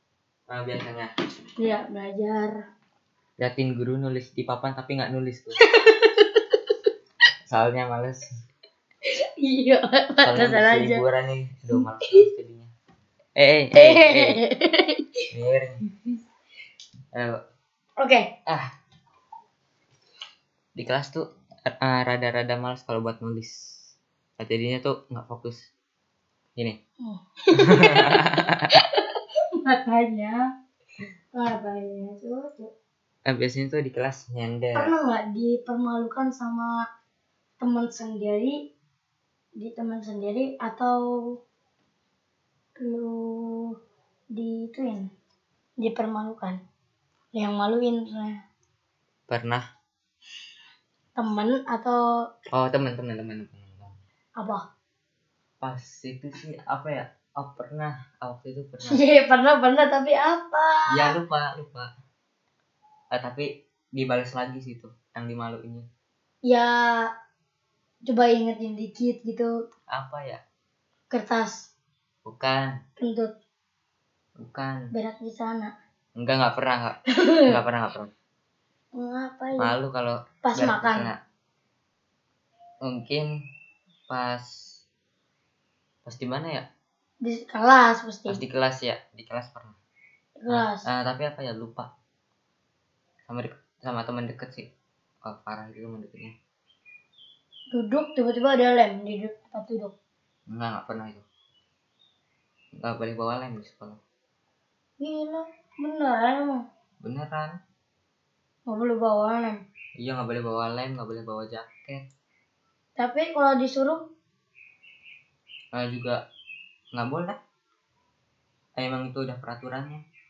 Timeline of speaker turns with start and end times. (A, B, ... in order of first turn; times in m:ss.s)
0:00.5-0:01.1 A
0:01.6-0:02.5 B
0:03.4-0:05.6 A
0:05.7-0:06.7 B
0:07.5-0:08.3 A
0:09.1-0:11.0 B
0:10.2-0:12.7 A
0:13.4-0:14.4 A
0:13.7-0:15.0 B
0:15.3-0:15.8 A
0:17.1-0:17.4 A
0:18.0-0:18.3 B
0:20.8-0:21.2 A
0:21.8-0:23.7 A
0:24.4-0:25.7 A
0:27.0-0:29.0 B
0:27.6-0:28.7 A
0:29.6-0:30.4 B
0:31.3-0:32.7 B
0:33.2-0:34.9 A
0:34.7-0:36.8 B
0:37.6-0:38.6 B
0:39.6-0:41.4 B
0:42.8-0:43.7 B
0:44.3-0:45.1 B
0:45.8-0:46.6 B
0:47.3-0:48.4 B
0:49.3-0:49.6 A
0:51.2-0:52.0 B
0:52.5-0:54.0 A
0:55.6-0:59.0 A
0:58.9-1:01.1 B
1:00.9-1:01.9 A
1:03.1-1:05.9 A
1:06.4-1:07.1 B
1:08.0-1:09.5 B
1:09.9-1:10.4 A
1:11.1-1:11.7 B
1:12.2-1:12.7 A
1:13.0-1:13.3 B
1:14.4-1:14.9 A
1:14.9-1:15.7 B
1:16.2-1:18.1 A
1:19.0-1:19.7 B
1:19.6-1:21.2 A
1:20.4-1:21.1 B
1:22.8-1:23.3 A
1:24.1-1:24.5 A
1:26.0-1:26.7 A
1:27.2-1:28.4 B
1:28.3-1:29.8 A
1:30.4-1:30.8 B
1:30.5-1:31.9 A
1:33.2-1:34.7 A
1:35.2-1:36.3 A
1:37.7-1:39.9 B
1:40.5-1:41.2 A
1:42.8-1:44.0 A
1:45.0-1:46.6 B
1:47.0-1:47.6 A
1:48.7-1:49.6 B
1:50.0-1:52.0 A
1:53.0-1:54.0 B
1:55.7-1:56.2 A
1:56.9-1:57.4 A
1:58.8-2:00.0 A